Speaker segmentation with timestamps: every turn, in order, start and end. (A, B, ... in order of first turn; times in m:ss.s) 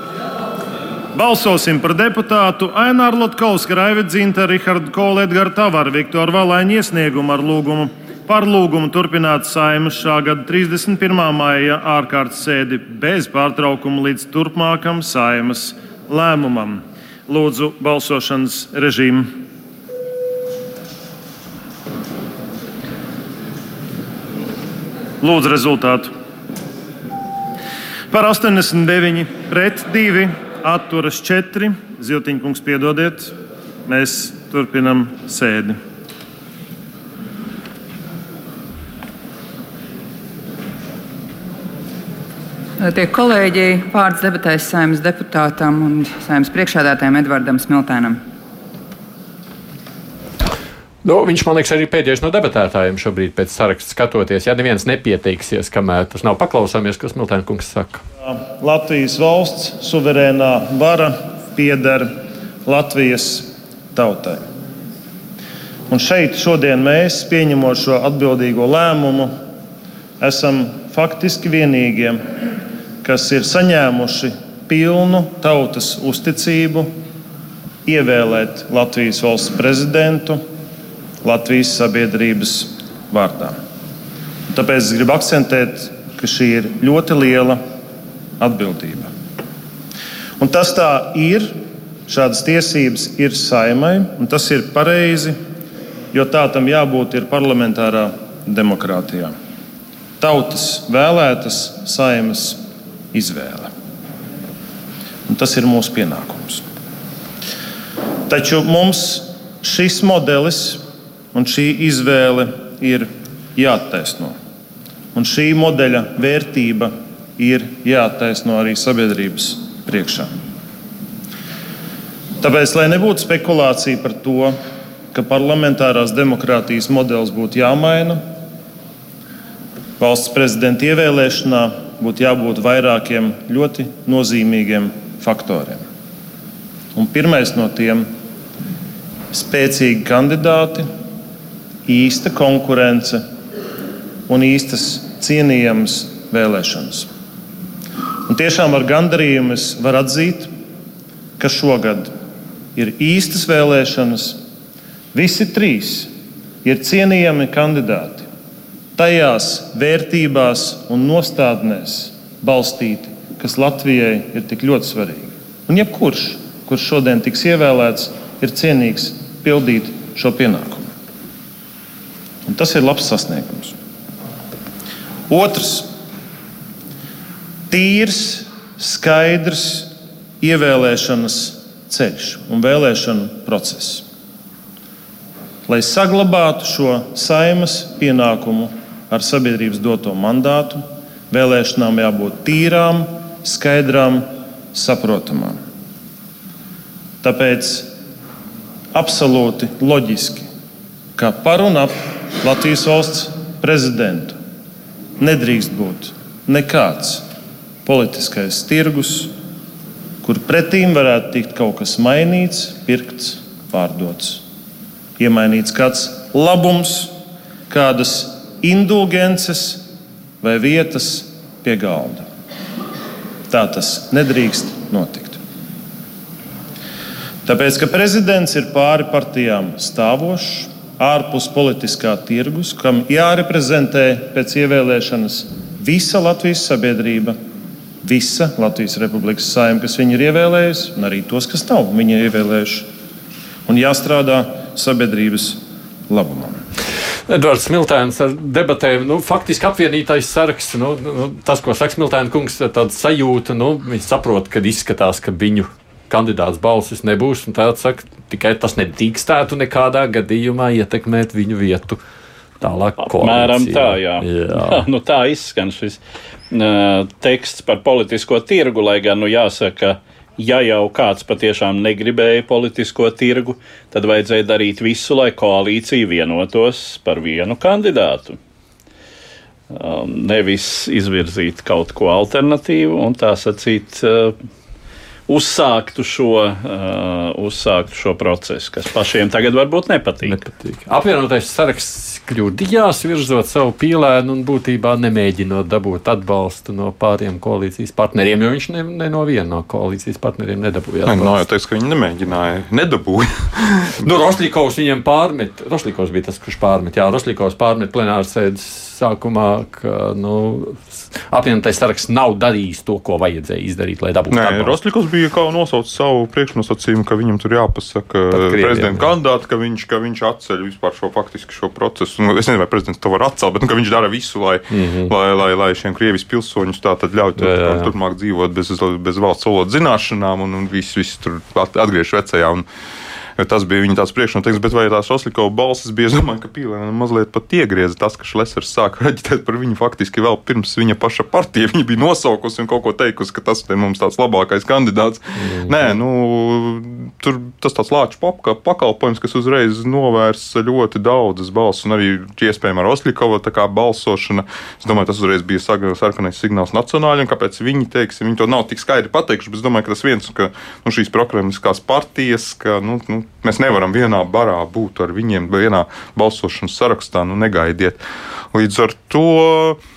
0:01.1-0:19.3 A
0:25.2-0:26.1 A
0:28.1-0:33.3 A
0:33.8-0:35.8 A
0:42.8-0:48.2 B
0:51.0-0:58.0 C
0:58.2-1:02.1 A
1:02.6-1:04.4 A
1:05.9-1:09.3 A
1:10.2-1:12.2 A
1:13.0-1:16.9 A
1:17.8-1:20.4 A
1:21.2-1:23.6 A
1:24.5-1:27.6 A
1:28.4-1:29.1 A
1:30.4-1:35.4 A
1:36.1-1:39.3 A
1:40.2-1:42.6 A
1:43.1-1:43.7 A
1:45.3-1:46.6 A
1:48.3-1:54.4 A
1:55.1-2:00.3 A
2:02.4-2:04.6 A
2:05.1-2:08.2 A
2:10.0-2:15.8 A
2:16.9-2:18.1 A
2:19.3-2:20.9 A
2:21.8-2:23.2 A
2:24.3-2:27.1 A
2:28.2-2:30.5 A
2:31.4-2:32.1 A
2:32.7-2:34.4 A
2:35.1-2:36.1 A
2:36.6-2:38.3 A
2:39.0-2:50.9 A
2:52.4-2:53.7 A
2:55.3-2:55.9 A
2:57.7-3:04.0 A
3:05.7-3:15.6 A
3:17.2-3:17.9 A
3:18.9-3:20.5 A
3:21.2-3:24.4 A
3:25.2-3:27.3 A
3:27.8-3:29.3 A
3:30.2-3:34.4 A
3:35.2-3:37.1 A
3:37.7-3:39.9 A
3:40.4-3:42.2 A
3:43.5-3:45.4 A
3:47.4-3:57.4 A
3:58.0-4:02.9 A
4:03.6-4:06.6 A
4:07.3-4:22.0 C
4:22.6-4:24.8 C
4:23.0-4:38.4 D
4:39.7-4:44.4 D
4:45.3-4:50.4 D
4:50.2-5:01.4 C
5:01.0-5:03.9 E
5:04.0-5:14.8 C
5:14.3-5:32.6 E
5:18.3-5:19.1 C
5:24.7-5:25.1 C
5:27.4-5:27.9 C
5:33.4-6:08.0 E
5:45.4-5:46.0 C
6:08.5-6:09.8 E